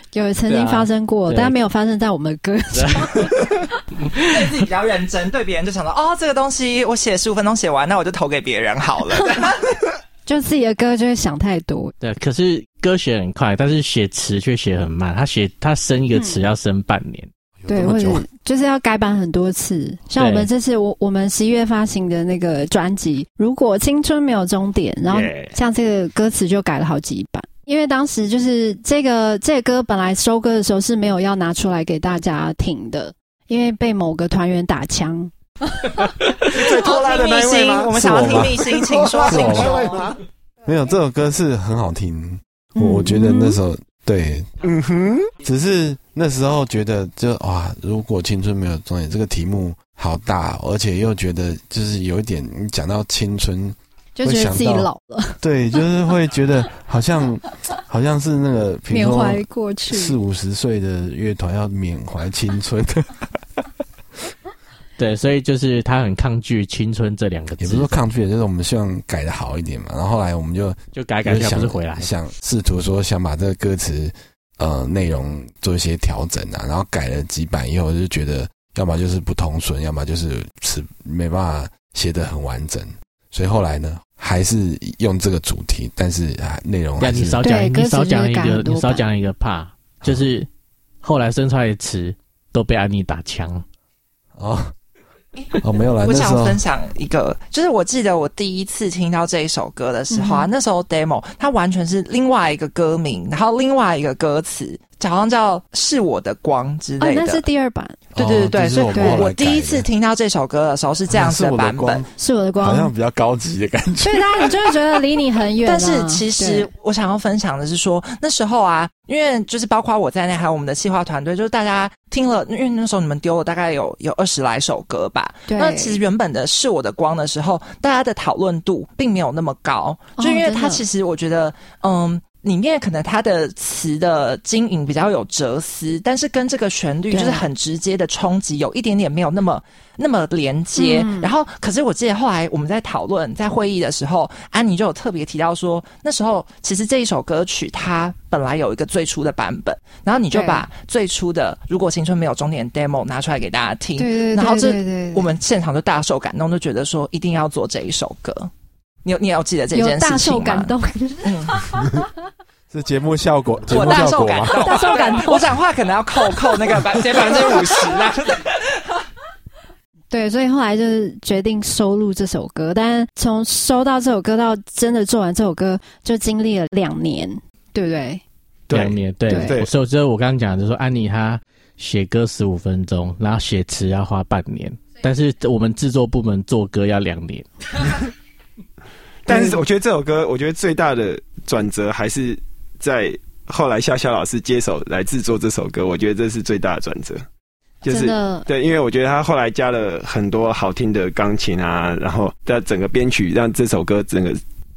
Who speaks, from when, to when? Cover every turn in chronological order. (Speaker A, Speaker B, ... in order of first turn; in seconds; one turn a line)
Speaker A: 0.1-3.6
Speaker B: 0.5-1.6
Speaker B: 2.7-3.3
Speaker C: 4.2-9.7
Speaker A: 10.2-11.9
Speaker B: 12.0-17.3
Speaker A: 16.1-16.4
Speaker D: 17.6-18.2
Speaker A: 17.7-35.3
Speaker B: 20.2-20.5
Speaker E: 25.1-25.6
Speaker E: 36.5-40.2
Speaker C: 36.5-40.0
Speaker D: 37.9-38.6
Speaker D: 39.2-39.9
Speaker D: 40.6-44.5
Speaker A: 42.7-43.6
Speaker E: 44.6-45.3
Speaker D: 45.4-54.9
Speaker A: 54.1-55.8
Speaker D: 55.4-63.2
Speaker A: 58.9-60.2
Speaker B: 65.0-67.9
Speaker D: 67.6-87.4
Speaker B: 70.9-72.1
Speaker B: 87.0-90.5
Speaker A: 87.4-89.0
Speaker B: 91.0-93.6
Speaker D: 94.4-94.7
Speaker D: 95.6-96.6
Speaker C: 96.0-107.4
Speaker A: 100.1-100.5
Speaker A: 107.0-108.0
Speaker C: 108.1-112.0
Speaker D: 108.2-109.9
Speaker A: 108.9-109.2
Speaker D: 111.1-114.5
Speaker A: 112.2-112.9
Speaker A: 114.0-116.7
Speaker C: 115.6-158.5
Speaker A: 125.5-126.0
Speaker A: 130.2-130.8
Speaker A: 137.1-137.4
Speaker A: 140.8-141.3
Speaker A: 150.3-150.7
Speaker A: 154.0-155.3
Speaker C: 159.0-160.7
Speaker A: 159.7-161.6
Speaker C: 161.2-161.6
Speaker D: 162.7-164.9
Speaker C: 163.7-168.9
Speaker A: 164.6-165.6
Speaker E: 167.1-167.9
Speaker A: 170.1-178.2
Speaker E: 178.7-179.7
Speaker B: 178.7-187.5
Speaker A: 179.3-179.6
Speaker E: 189.2-197.2
Speaker A: 189.3-189.6
Speaker E: 197.8-204.4
Speaker A: 197.9-198.5